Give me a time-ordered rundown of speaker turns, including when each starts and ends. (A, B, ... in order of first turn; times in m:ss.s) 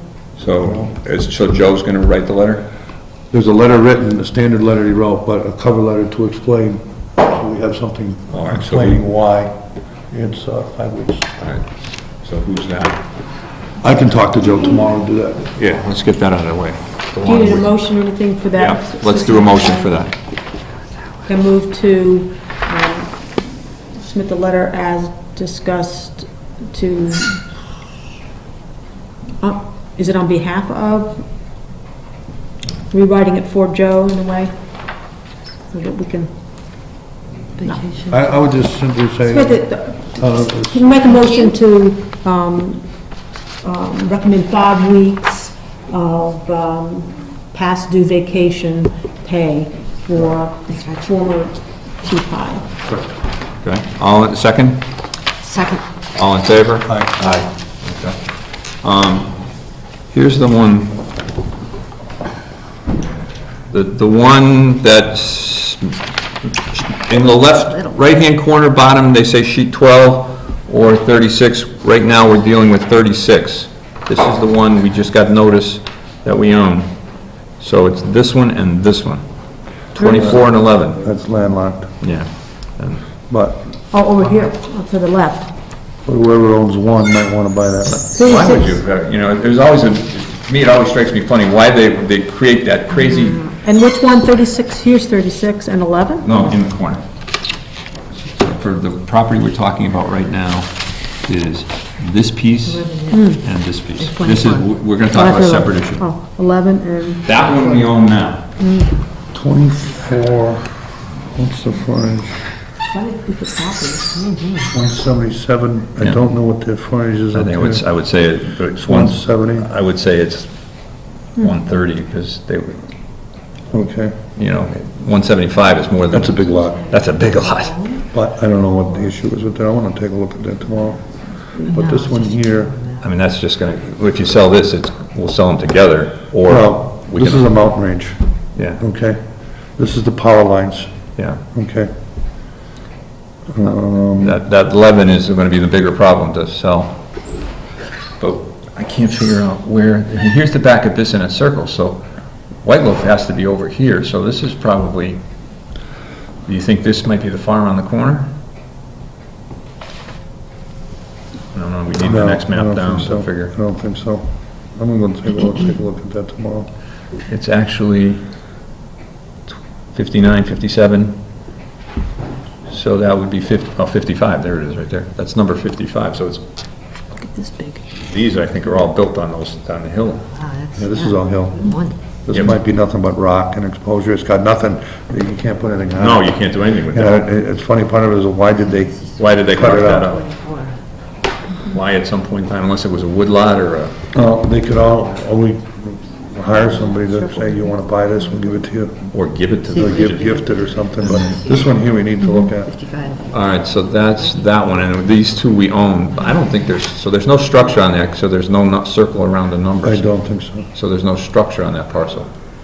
0:00.4-0:02.7 A
0:00.6-0:00.9 B
0:03.3-0:09.6 B
0:08.3-0:09.0 A
0:10.1-0:11.3 B
0:11.4-0:13.0 A
0:13.8-0:15.5 B
0:15.6-0:17.7 A
0:17.2-0:19.9 C
0:18.6-0:20.2 A
0:21.3-0:23.2 C
0:24.0-0:27.5 C
0:29.4-0:31.2 C
0:32.9-0:34.5 C
0:35.7-0:36.3 C
0:37.6-0:38.3 D
0:38.1-0:40.9 B
0:39.2-0:42.9 C
0:43.6-0:52.7 C
0:53.6-0:54.8 A
0:55.4-0:55.8 D
0:56.1-0:58.2 A
0:56.9-0:57.1 B
0:58.8-0:59.4 A
1:00.1-1:01.0 A
1:03.7-1:06.0 A
1:06.6-1:17.0 A
1:07.7-1:08.0 D
1:17.6-1:19.2 A
1:19.8-1:21.0 A
1:20.0-1:20.3 C
1:20.2-1:21.9 B
1:22.0-1:23.0 A
1:23.3-1:23.6 B
1:23.9-1:25.5 C
1:26.0-1:28.1 B
1:27.9-1:33.5 A
1:28.2-1:28.8 C
1:33.4-1:36.3 C
1:36.2-1:37.0 A
1:38.3-1:40.7 A
1:41.2-1:46.0 A
1:42.6-1:43.4 D
1:43.1-1:43.4 C
1:44.0-1:44.7 D
1:45.1-1:47.7 C
1:47.2-1:48.5 A
1:48.6-1:49.0 C
1:49.3-1:50.7 B
1:51.3-1:52.5 B
1:52.9-1:54.2 C
1:54.2-1:54.7 D
1:54.7-1:57.8 B
1:57.3-2:00.5 A
1:58.8-1:59.7 B
2:01.4-2:02.8 A
2:03.7-2:04.2 B
2:04.4-2:07.8 A
2:06.1-2:06.8 B
2:06.6-2:08.0 D
2:08.1-2:12.7 B
2:11.6-2:13.1 D
2:13.0-2:17.5 A
2:16.4-2:18.2 B
2:18.6-2:18.8 A
2:18.8-2:19.2 B
2:19.8-2:20.9 B
2:21.2-2:21.4 A
2:21.5-2:21.9 B
2:23.5-2:24.4 B
2:24.2-2:27.0 A
2:28.2-2:32.0 A
2:32.6-2:35.2 A
2:36.4-2:38.3 A
2:41.5-2:43.5 A
2:42.0-2:46.7 B
2:47.3-2:48.2 A
2:49.5-2:51.2 A
2:52.7-2:56.4 A
2:57.2-2:57.8 D
2:58.0-3:00.2 A
3:00.4-3:02.0 D
3:00.8-3:10.1 B
3:06.0-3:07.2 A
3:08.6-3:10.8 D
3:09.2-3:10.2 A
3:11.6-3:14.0 A
3:14.1-3:19.0 B
3:16.6-3:17.7 D
3:19.1-3:20.3 A
3:19.6-3:21.8 D
3:19.8-3:22.7 B
3:21.0-3:21.4 A
3:22.4-3:23.6 D
3:23.3-3:30.2 A
3:24.2-3:24.5 D
3:29.8-3:30.7 B
3:30.7-3:32.3 A